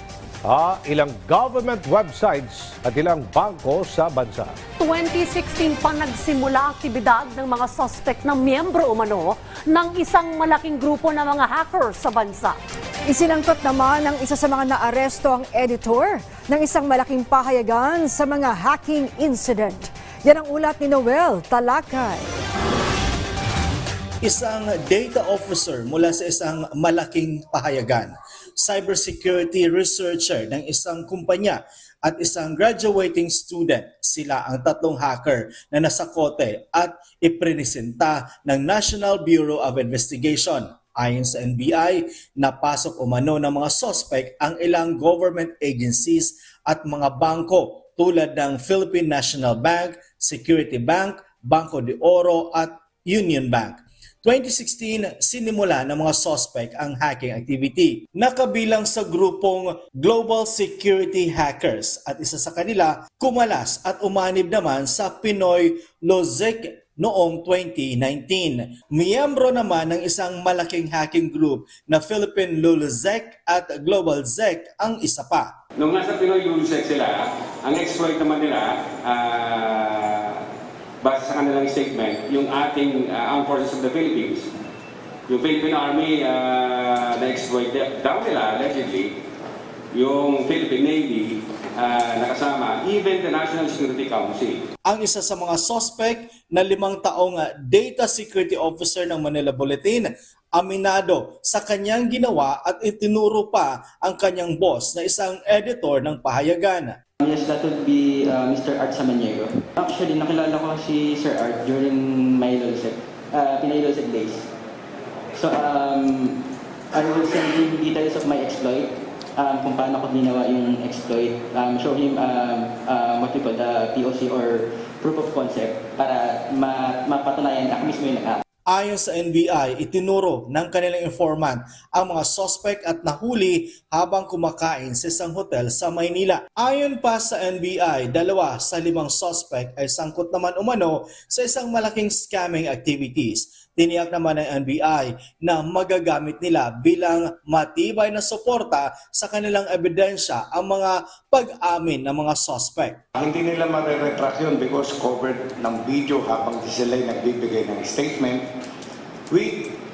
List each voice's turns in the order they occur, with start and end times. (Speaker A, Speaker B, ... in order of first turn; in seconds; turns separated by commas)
Speaker A: 0.4-4.5, Speaker B: 4.8-12.6, Speaker C: 13.1-22.2, Speaker D: 24.2-75.5, Speaker E: 75.8-80.4, Speaker E: 81.0-84.5, Speaker E: 85.3-89.1, Speaker E: 89.9-94.6, Speaker D: 94.8-107.0, Speaker F: 107.2-114.4, Speaker F: 115.3-116.4, Speaker F: 116.9-128.4, Speaker D: 128.7-153.0, Speaker G: 153.1-158.5, Speaker G: 159.3-159.7